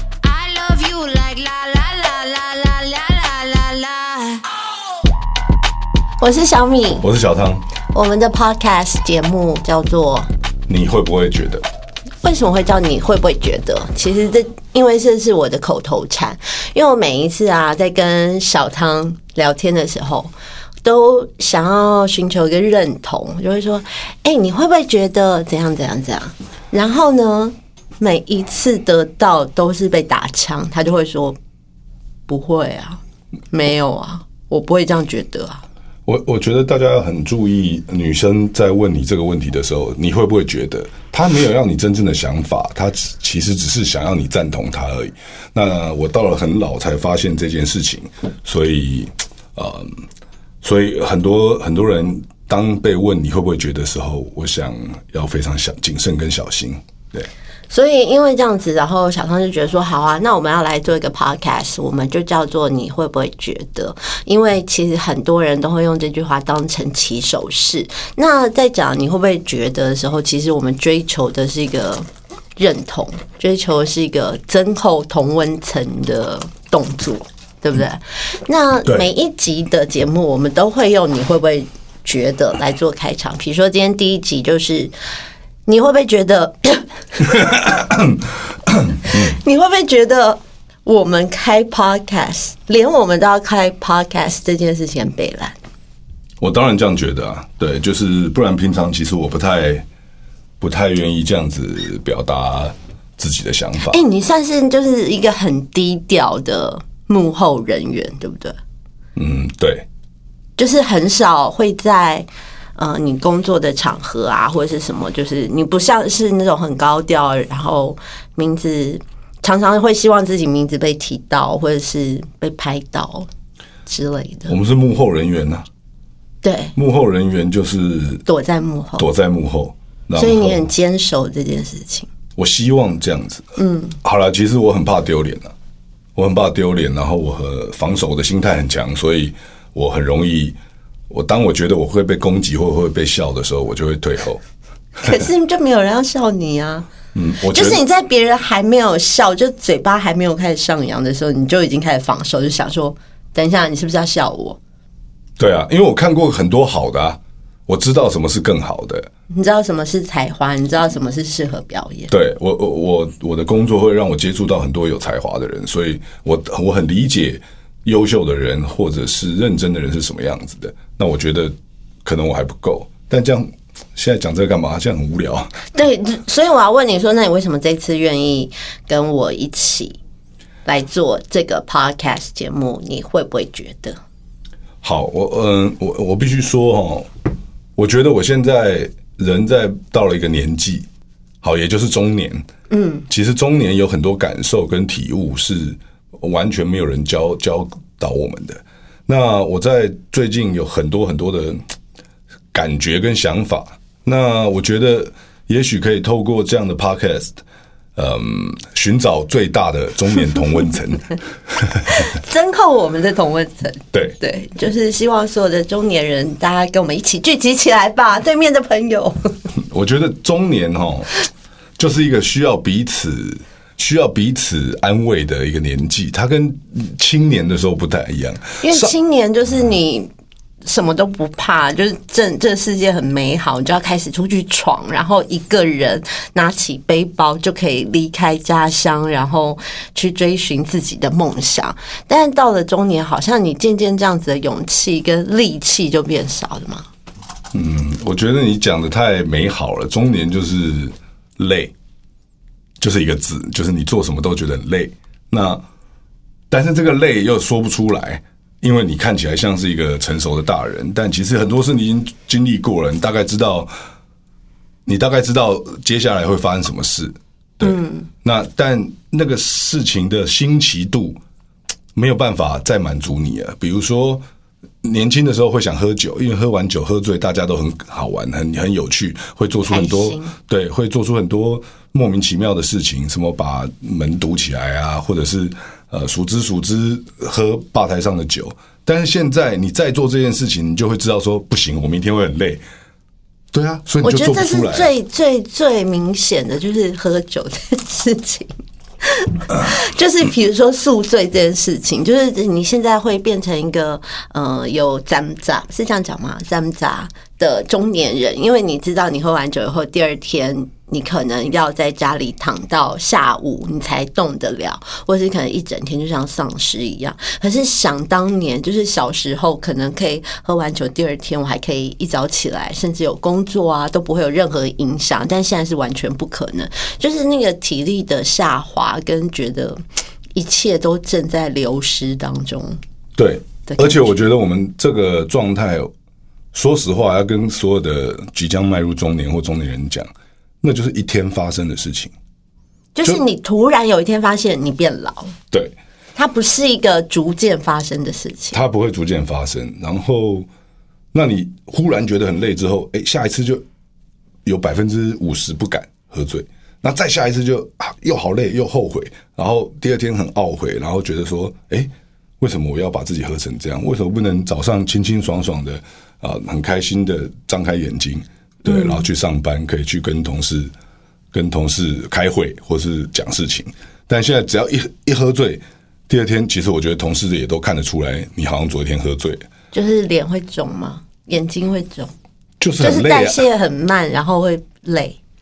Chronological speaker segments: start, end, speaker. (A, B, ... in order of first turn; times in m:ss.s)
0:00.2-0:04.4 A
0:06.2-0:07.0 B
0:07.0-0:07.6 C
0:07.9-0:10.3 B
0:10.7-0:11.6 C
0:12.2-0:20.3 B
0:20.8-0:31.4 B
0:32.3-0:33.0 B
0:33.5-0:35.6 B
0:36.1-0:50.0 C
0:50.6-0:57.3 C
0:57.7-1:12.1 B
1:12.6-1:24.9 B
1:25.7-1:26.9 B
1:27.3-1:29.4 C
1:29.1-1:35.6 B
1:36.4-1:39.8 C
1:40.6-1:44.0 C
1:43.9-1:48.6 B
1:49.2-1:49.9 C
1:50.6-2:03.3 B
2:03.9-2:04.5 B
2:04.5-2:05.7 C
2:06.4-2:06.7 B
2:06.8-2:08.2 C
2:08.3-2:09.1 B
2:09.0-2:10.7 C
2:10.2-2:12.1 B
2:12.4-2:13.5 C
2:13.6-2:14.0 B
2:14.0-2:15.5 C
2:16.2-2:20.6 C
2:21.1-2:24.4 C
2:25.0-2:25.3 C
2:25.0-2:26.9 B
2:27.1-2:27.8 C
2:27.5-2:34.6 B
2:35.4-2:39.1 C
2:39.3-2:42.1 B
2:42.1-2:55.5 C
2:55.7-3:00.0 B
3:00.7-3:04.0 B
3:04.8-3:07.1 C
3:07.8-3:10.9 C
3:11.4-3:12.5 C
3:12.7-3:13.0 B
3:13.1-3:21.6 C
3:22.5-3:27.4 C
3:28.0-3:32.0 C
3:31.9-3:39.3 B
3:39.6-3:41.1 C
3:41.8-3:48.9 C
3:48.6-3:50.1 B
3:50.6-4:06.9 B
4:07.5-4:11.7 C
4:12.8-4:15.6 C
4:16.5-4:23.7 C
4:24.9-4:31.2 C
4:27.6-4:28.1 B
4:32.0-4:34.2 C
4:34.8-4:52.6 C
4:39.6-4:40.4 B
4:53.5-4:54.9 C
4:54.0-5:29.8 B
5:30.4-5:32.8 B
5:33.2-5:35.9 C
5:33.7-5:34.1 B
5:36.5-5:40.1 C
5:40.6-5:42.1 C
5:43.0-5:45.4 B
5:46.2-5:48.6 B
5:48.5-5:50.5 C
5:51.1-5:53.6 C
5:54.4-6:10.7 C
6:08.6-6:09.0 B
6:11.3-6:19.4 C
6:19.7-6:22.1 B
6:22.6-6:23.4 C
6:22.8-6:25.2 B